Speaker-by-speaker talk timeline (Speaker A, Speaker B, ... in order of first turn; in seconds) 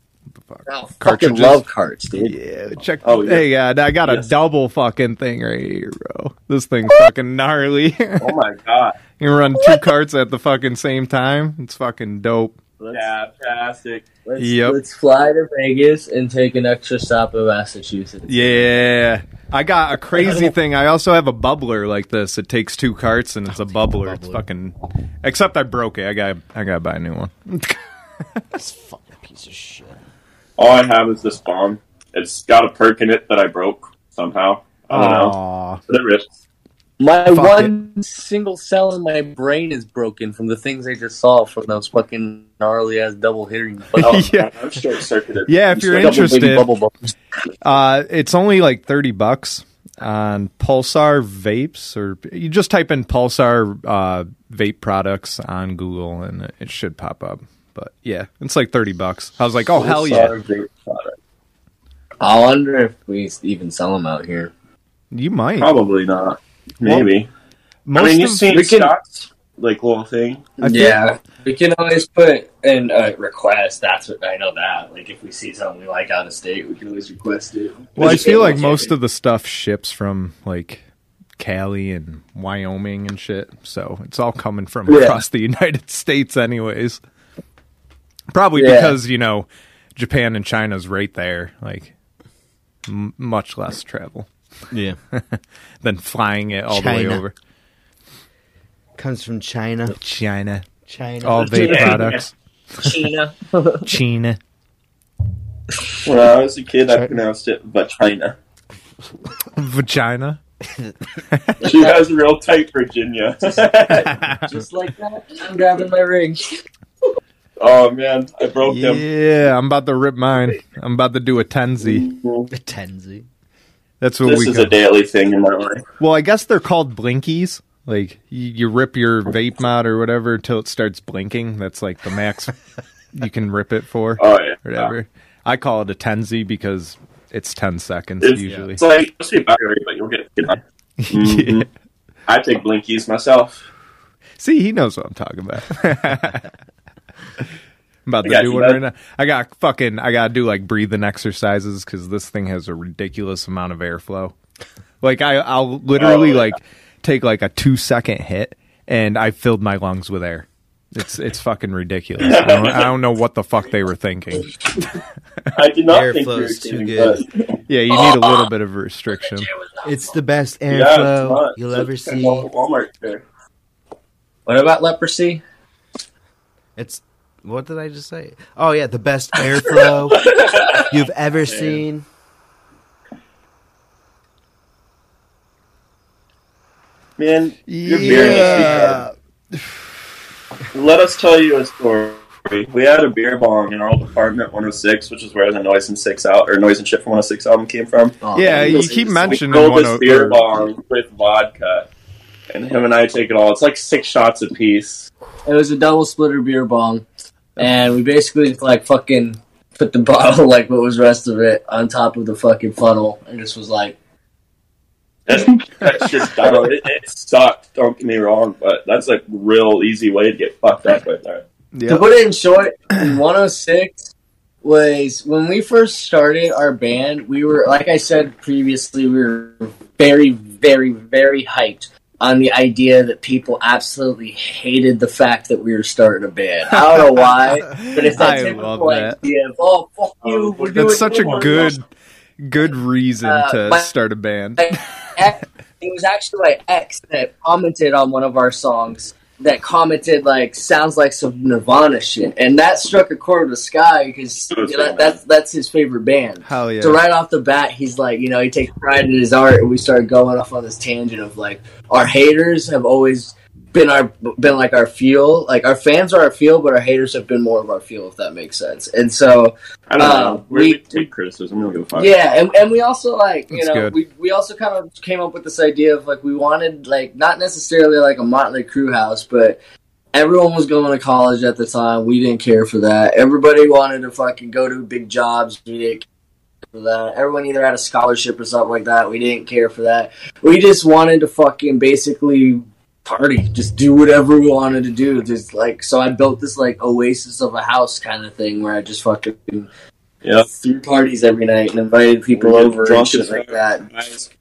Speaker A: 0.4-1.6, 2.2-8.3, 9.2-12.6, 14.4-14.8, 18.3-27.8, 34.9-35.8, 37.3-37.7, 44.0-44.5, 45.5-46.7, 47.6-60.4, 65.1-65.7, 67.9-68.7, 70.6-71.0, 78.0-80.8, 81.4-87.0, 88.3-91.9, 92.9-94.3, 95.1-97.3, 100.0-100.7, 101.2-102.3, 103.8-104.4, 109.5-110.4, 111.3-111.7, 113.9-114.5, 118.7-122.1, 124.0-124.7, 126.0-132.6, 133.1-138.8, 141.0-141.7, 144.4-146.5, 148.1-154.3, 155.0-164.6, 167.7-169.5, 187.7-189.7, 198.4-200.5, 221.7-222.1, 237.6-239.2, 240.7-241.8, 242.4-244.8, 256.4-257.0, 273.5-273.9
Speaker B: 0.7-2.4, 9.6-9.8, 12.8-13.1, 14.2-18.9, 20.2-20.5, 37.0-44.1, 46.0-47.1, 62.2-64.5, 68.5-68.9, 70.6-78.9, 84.9-85.2, 88.6-89.0, 102.8-103.9, 111.6-112.0, 114.3-116.6, 174.5-175.4, 188.1-188.8, 198.2-199.4, 205.4-207.1, 207.6-214.0, 221.9-224.1, 224.6-241.7, 243.2-243.9, 244.6-271.0, 271.9-279.6, 280.1-286.1, 286.7-299.7, 300.4-303.9
Speaker C: 3.0-3.5, 4.0-4.3, 8.2-9.0, 12.9-14.1, 30.6-35.4, 35.9-36.3, 44.0-46.6, 59.8-61.2, 65.6-67.3, 68.0-70.5, 78.0-78.6, 101.5-102.3, 106.0-108.4, 111.6-114.2, 117.6-119.1, 121.8-122.5, 124.2-125.8, 134.2-134.9, 138.2-141.7, 142.3-143.7, 148.2-148.8, 156.0-156.6, 162.2-162.9, 165.5-167.4, 170.7-173.2, 180.1-180.9, 181.5-181.8, 187.2-189.0, 190.7-201.9, 202.5-205.1, 215.3-221.4, 240.2-241.8, 254.5-255.2, 269.9-272.1, 302.3-304.3
Speaker D: 23.5-24.4, 28.5-30.0, 94.7-95.0, 96.7-97.2, 99.0-100.0, 100.9-101.9, 122.5-123.3, 138.4-138.7, 165.9-167.2, 169.8-172.5, 176.8-182.1